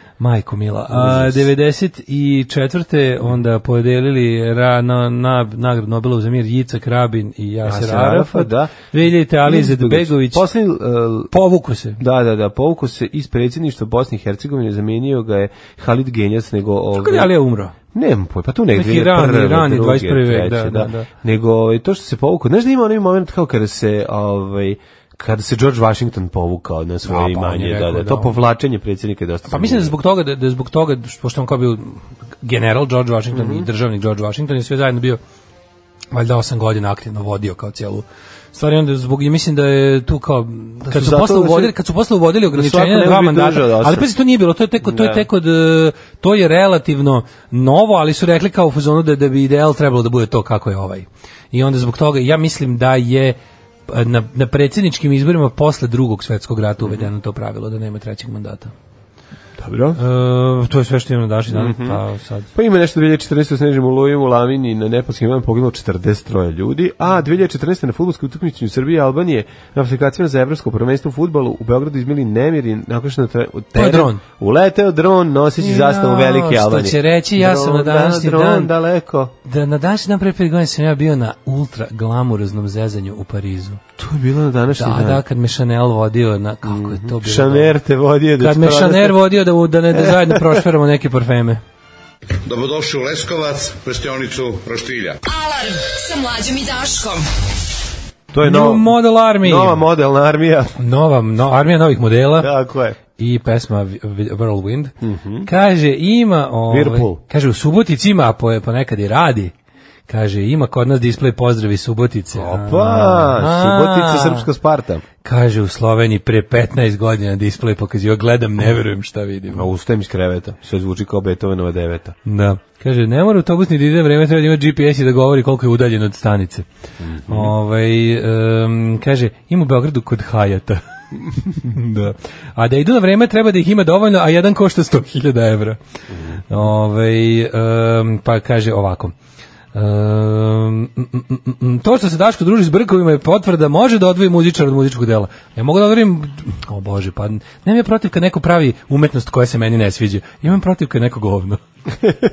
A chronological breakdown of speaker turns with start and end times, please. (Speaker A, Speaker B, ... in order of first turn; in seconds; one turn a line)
Speaker A: 0.2-10.4
Speaker B: 0.9-1.5
Speaker B: 7.6-8.9
Speaker B: 9.4-11.3
Speaker A: 11.3-12.0
Speaker B: 12.0-17.3
Speaker A: 17.0-17.7
Speaker B: 17.9-29.9
Speaker A: 18.7-21.1
Speaker A: 27.1-28.4
Speaker A: 29.5-35.2
Speaker B: 33.3-33.7
Speaker A: 36.1-53.4
Speaker B: 40.8-41.7
Speaker B: 42.5-44.1
Speaker B: 44.8-45.3
Speaker A: 53.9-58.7
Speaker B: 56.8-57.1
Speaker B: 59.6-60.0
Speaker A: 60.0-62.5
Speaker B: 61.5-62.0
Speaker B: 62.5-79.3
Speaker A: 73.7-74.2
Speaker A: 75.6-78.7
Speaker A: 79.4-83.8
Speaker B: 84.0-85.2
Speaker A: 84.7-87.7
Speaker B: 86.7-89.2
Speaker A: 88.4-91.6
Speaker B: 89.9-90.6
Speaker C: 92.5-95.1
Speaker D: 95.2-97.3
Speaker B: 98.3-100.8
Speaker A: 98.4-99.8
Speaker A: 100.8-102.5
Speaker B: 102.4-103.0
Speaker A: 103.2-104.9
Speaker B: 105.0-105.5
Speaker A: 105.4-109.5
Speaker B: 106.7-107.2
Speaker A: 110.1-114.5
Speaker B: 112.3-115.0
Speaker A: 115.2-119.6
Speaker B: 119.5-122.2
Speaker A: 122.2-126.7
Speaker B: 127.0-127.5
Speaker A: 127.3-130.8
Speaker A: 131.4-135.8
Speaker B: 136.1-136.4
Speaker A: 136.5-139.1
Speaker A: 139.7-151.6